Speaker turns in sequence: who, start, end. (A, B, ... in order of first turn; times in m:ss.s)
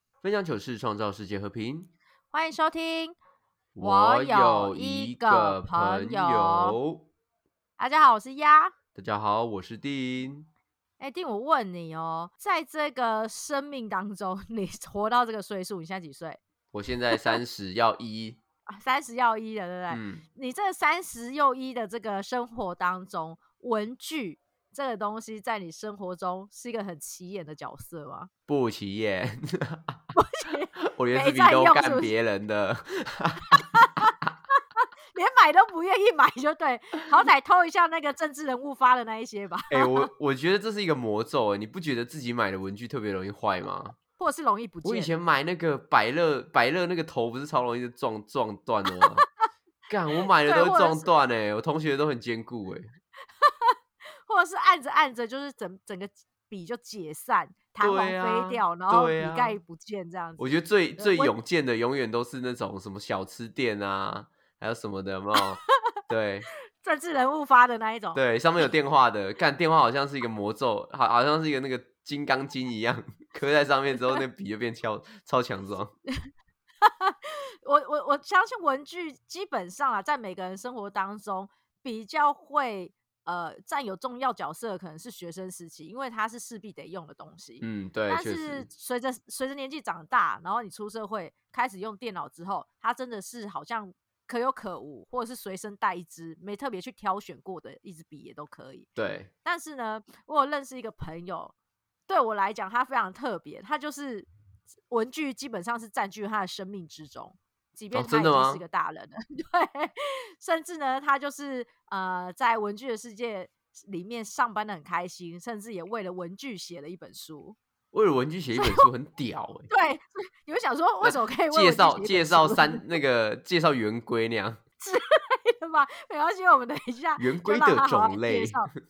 0:00.2-0:01.9 A
0:02.3-0:03.2 B
0:03.8-0:07.1 A
0:03.8-0:06.8 B
0:07.8-0:08.7 B
0:09.0-0:10.5 A
0:11.0-0:16.4 B
0:16.7-0:18.4 A
0:17.1-0:17.4 B
0:18.7-0:28.3 B
0:19.9-0:20.2 A
0:28.5-0:30.0 A
0:30.1-0:32.1 B
0:30.9-0:33.6 A
0:33.6-0:34.1 B
0:35.2-0:40.1 B
0:39.7-0:44.0 A
0:44.2-0:45.1 B
0:44.8-0:49.3 A
0:49.9-0:52.9 A
0:50.4-0:51.1 B
0:53.4-0:53.8 B
0:54.3-1:00.4 B
0:57.8-0:59.6 A
1:00.4-1:06.5 A
1:01.0-1:01.3 B
1:06.8-1:08.2 B
1:08.2-1:15.9 A
1:16.8-1:38.9 B
1:27.6-1:28.7 A
1:39.0-1:39.3 A
1:39.4-1:41.5 B
1:42.1-1:44.3 B
1:44.9-1:57.6 B
1:47.9-1:48.6 A
1:57.9-1:59.7 A
1:58.6-1:58.8 B
1:59.7-2:02.8 B
2:01.0-2:04.6 A
2:04.8-2:08.7 B
2:07.2-2:08.6 A